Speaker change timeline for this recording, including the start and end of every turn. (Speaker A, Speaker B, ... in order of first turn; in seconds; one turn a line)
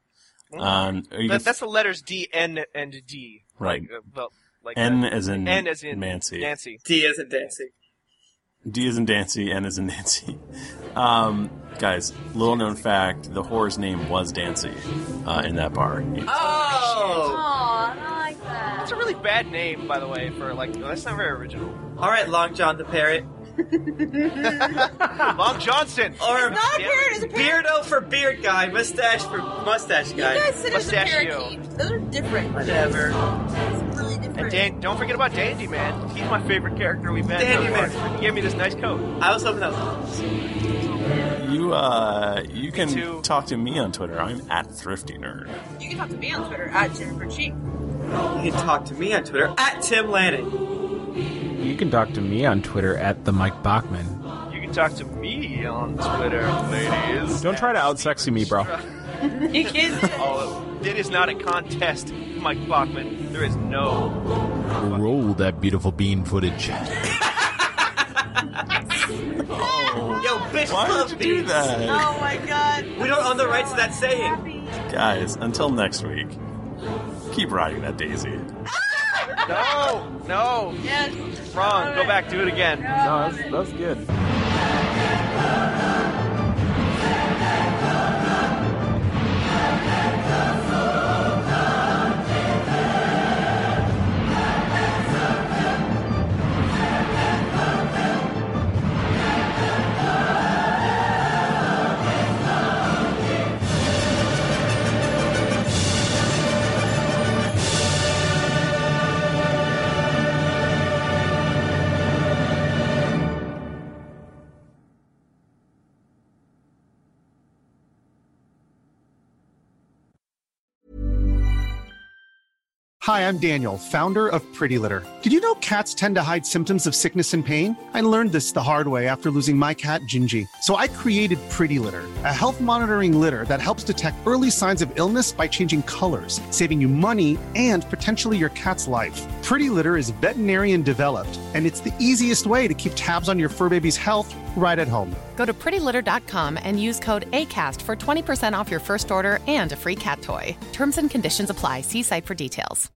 Speaker A: 0.5-6.8
Speaker B: 0.6-1.5
Speaker B: 3.6-3.9
Speaker B: 4.8-6.5
Speaker C: 6.8-7.7
Speaker B: 8.7-10.4
Speaker B: 10.9-16.4
Speaker D: 16.3-19.0
Speaker C: 16.4-17.4
Speaker A: 18.8-21.8
Speaker C: 22.0-23.3
Speaker D: 23.8-24.9
Speaker A: 24.5-27.2
Speaker C: 26.2-30.5
Speaker D: 26.3-27.6
Speaker D: 30.1-32.9
Speaker A: 30.7-31.6
Speaker C: 32.5-33.2
Speaker D: 33.7-34.7
Speaker A: 34.4-39.1
Speaker C: 37.4-38.0
Speaker C: 39.2-40.2
Speaker D: 40.9-41.4
Speaker B: 41.4-45.6
Speaker A: 42.7-43.3
Speaker D: 45.8-47.6
Speaker C: 48.2-50.6
Speaker E: 51.6-54.2
Speaker A: 54.5-58.9
Speaker E: 57.4-58.7
Speaker D: 59.2-60.4
Speaker A: 59.5-64.2
Speaker F: 64.8-67.0
Speaker A: 64.8-65.1
Speaker C: 67.4-67.8
Speaker B: 69.5-72.2
Speaker D: 69.7-70.0
Speaker C: 70.2-71.8
Speaker D: 71.8-74.8
Speaker C: 73.0-74.4
Speaker B: 74.9-76.4
Speaker B: 77.3-78.5
Speaker D: 78.8-80.0
Speaker A: 79.5-80.8
Speaker D: 80.8-82.2
Speaker A: 81.5-82.9
Speaker D: 82.8-83.6
Speaker E: 83.0-84.1
Speaker G: 123.0-145.2
Speaker H: 145.4-152.9